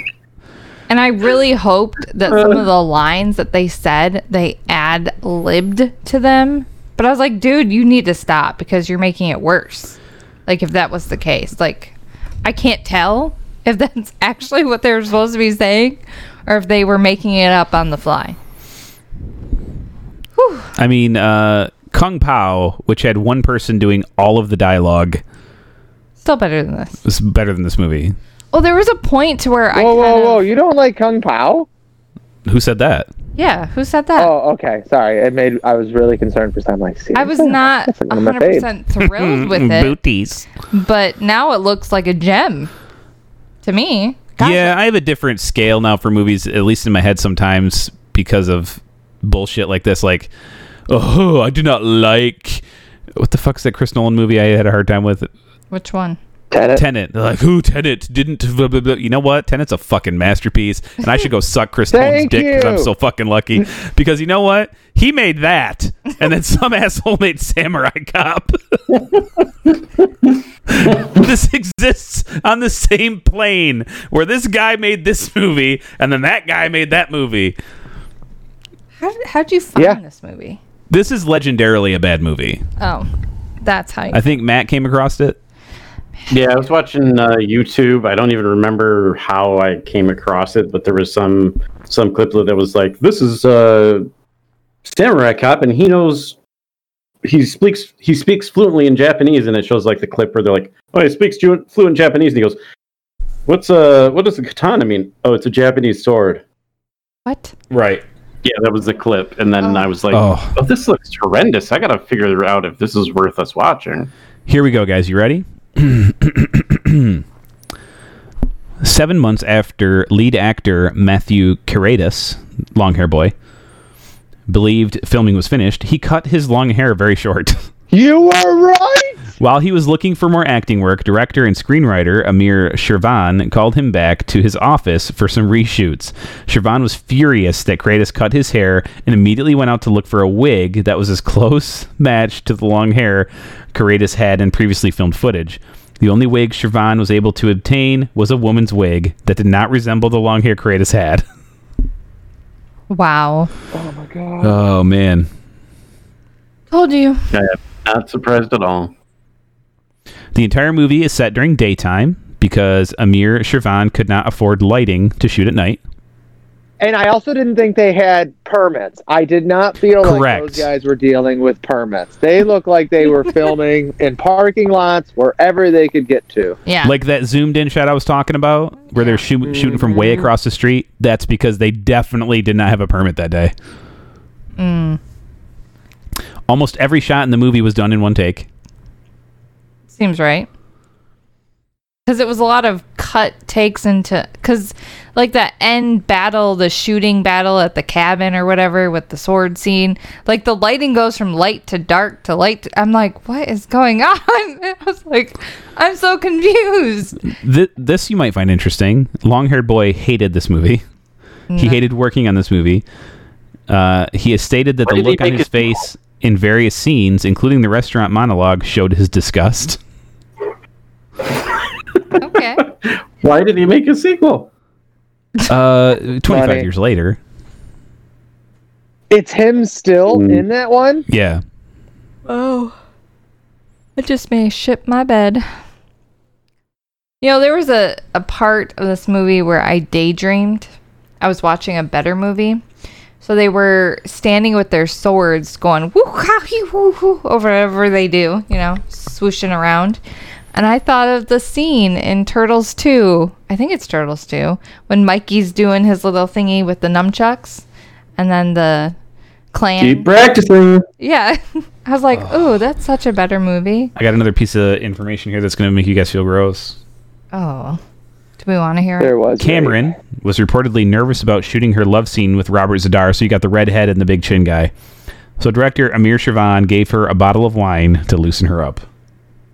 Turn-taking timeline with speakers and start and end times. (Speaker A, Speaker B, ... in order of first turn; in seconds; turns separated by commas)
Speaker A: 0.9-18.4, Speaker B: 2.3-2.6, Speaker A: 20.4-20.7, Speaker C: 20.8-25.2, Speaker A: 26.2-27.0, Speaker C: 27.0-28.1, Speaker A: 28.5-30.5, Speaker D: 29.7-31.7, Speaker C: 32.5-33.1, Speaker A: 33.4-34.3, Speaker D: 34.2-38.6, Speaker A: 37.1-40.0, Speaker C: 39.0-40.5, Speaker A: 40.7-42.7, Speaker A: 43.6-44.7, Speaker C: 44.4-50.3, Speaker C: 50.9-52.6, Speaker C: 53.1-55.3, Speaker A: 55.7-56.2, Speaker D: 56.5-56.8, Speaker C: 56.7-68.6, Speaker D: 61.9-62.9, Speaker C: 70.7-77.6, Speaker A: 79.0-80.6, Speaker C: 80.9-82.6, Speaker A: 82.8-83.1, Speaker A: 83.6-84.2, Speaker C: 84.1-85.4, Speaker B: 86.3-94.1, Speaker B: 94.8-96.4, Speaker B: 97.2-102.6, Speaker B: 103.5-106.4, Speaker A: 107.2-107.5, Speaker C: 107.7-108.0, Speaker B: 108.4-114.1, Speaker A: 109.6-109.9, Speaker C: 110.1-110.5, Speaker C: 114.5-117.2, Speaker C: 118.8-123.3, Speaker C: 124.5-127.6, Speaker D: 127.9-129.2, Speaker C: 129.4-151.2, Speaker A: 152.9-153.5, Speaker D: 153.7-154.6, Speaker C: 154.4-155.3, Speaker A: 156.7-157.2, Speaker B: 157.3-158.9, Speaker C: 160.3-165.8, Speaker D: 166.8-176.6, Speaker C: 170.0-170.7, Speaker A: 176.7-176.9, Speaker C: 176.8-183.5, Speaker A: 179.0-179.2, Speaker D: 179.4-180.3, Speaker A: 184.6-185.0, Speaker C: 186.5-188.5, Speaker A: 189.9-190.5, Speaker A: 192.1-207.2, Speaker C: 207.3-210.8, Speaker A: 211.5-211.8, Speaker C: 211.6-212.8, Speaker C: 213.7-219.8, Speaker B: 214.9-215.9, Speaker B: 222.2-224.5, Speaker A: 222.2-222.7, Speaker C: 225.5-227.2, Speaker D: 226.3-226.7, Speaker D: 229.1-231.1, Speaker B: 230.1-230.4, Speaker C: 231.1-231.4, Speaker A: 232.3-232.7, Speaker A: 234.0-235.4, Speaker A: 237.2-240.7, Speaker A: 241.2-242.6, Speaker A: 243.2-250.0, Speaker A: 250.5-257.6, Speaker A: 258.2-258.9, Speaker A: 259.5-260.1, Speaker B: 259.8-260.9, Speaker A: 261.0-263.9, Speaker C: 262.1-262.4, Speaker C: 263.9-266.8, Speaker A: 267.3-267.8, Speaker A: 268.4-269.1, Speaker D: 269.0-269.9, Speaker C: 269.4-274.7, Speaker C: 275.4-278.8